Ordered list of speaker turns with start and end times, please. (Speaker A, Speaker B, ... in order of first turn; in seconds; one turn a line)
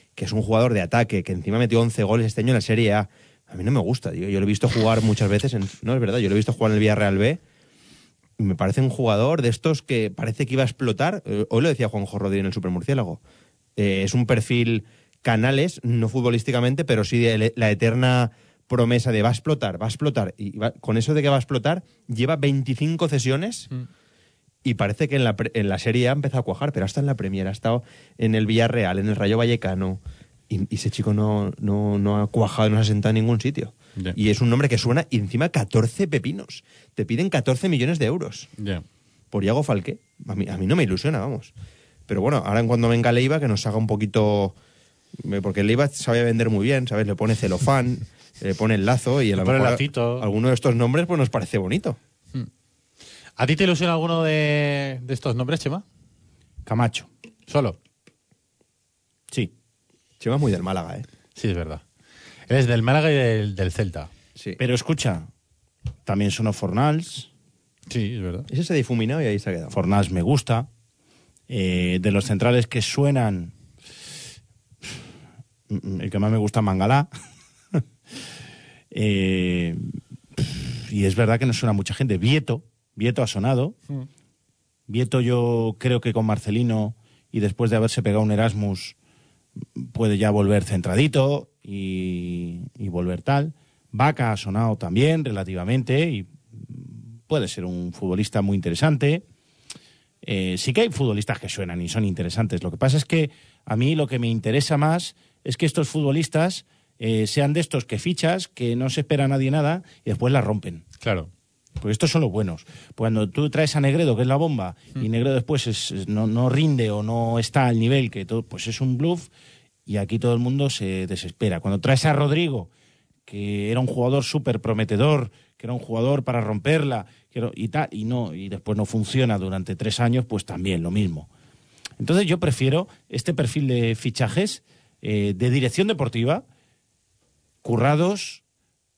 Speaker A: 0.1-7.4
Speaker A: 8.4-13.2
Speaker A: 13.8-23.7
Speaker A: 24.6-38.5
Speaker B: 38.6-38.8
Speaker A: 39.3-41.5
Speaker A: 42.1-44.5
Speaker A: 45.2-52.0
Speaker B: 49.4-50.3
Speaker B: 53.4-55.8
Speaker C: 56.6-57.1
Speaker B: 57.5-57.8
Speaker A: 60.2-61.0
Speaker B: 61.4-61.8
Speaker B: 62.5-64.1
Speaker C: 64.6-65.3
Speaker C: 66.0-67.3
Speaker B: 67.9-68.5
Speaker A: 68.5-69.8
Speaker C: 69.7-70.7
Speaker C: 71.5-73.5
Speaker C: 75.7-77.1
Speaker C: 78.9-79.8
Speaker C: 80.3-83.8
Speaker C: 84.9-88.9
Speaker C: 89.8-99.2
Speaker C: 100.2-110.9
Speaker B: 111.0-111.3
Speaker C: 111.8-119.3
Speaker C: 119.8-122.7
Speaker C: 123.2-131.3
Speaker C: 132.0-136.4
Speaker C: 137.6-138.4